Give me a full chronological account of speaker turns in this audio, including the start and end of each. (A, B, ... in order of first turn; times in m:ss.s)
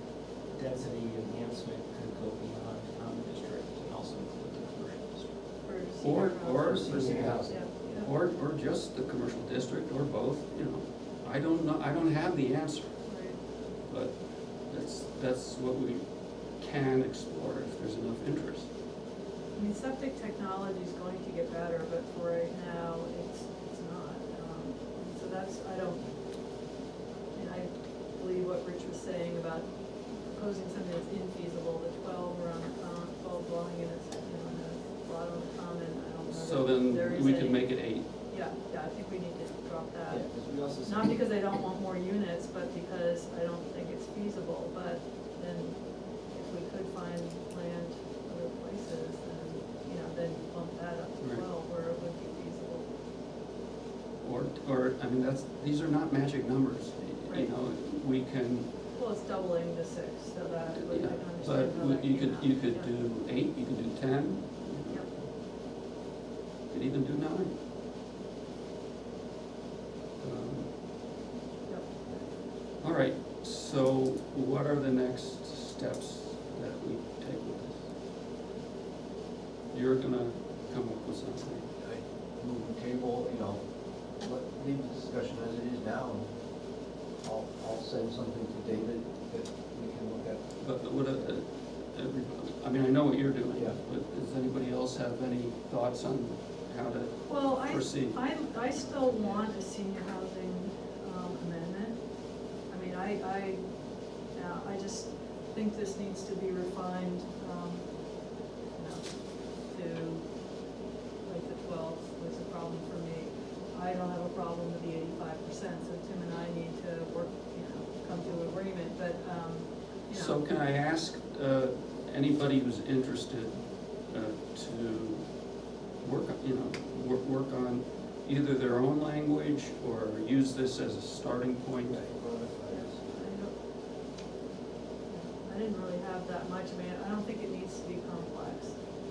0:00.5-0:05.3 A
0:05.6-0:08.1 B
0:06.0-0:13.0 C
0:06.5-0:07.6 A
0:13.1-0:13.4 B
0:13.9-0:18.7 C
0:19.6-0:26.2 B
0:27.3-0:52.9 B
0:36.3-0:38.1 C
0:40.1-0:40.9 D
0:54.2-0:58.8 C
0:58.9-1:02.9 B
1:00.8-1:05.1 C
1:06.7-1:07.6 C
1:10.2-1:10.8 C
1:11.6-1:12.1 B
1:12.8-1:17.8 C
1:19.7-1:21.7 C
1:21.8-1:23.6 D
1:24.2-1:26.3 D
1:27.2-1:31.4 D
1:30.6-1:38.4 C
1:33.5-1:33.8 D
1:37.3-1:42.0 B
1:39.0-1:39.4 D
1:42.7-1:43.7 B
1:44.3-1:48.1 B
1:48.7-1:50.4 B
1:51.2-2:00.4 B
2:00.1-2:05.4 C
2:06.0-2:12.0 C
2:11.8-2:13.0 D
2:12.7-2:13.6 B
2:15.1-2:19.0 B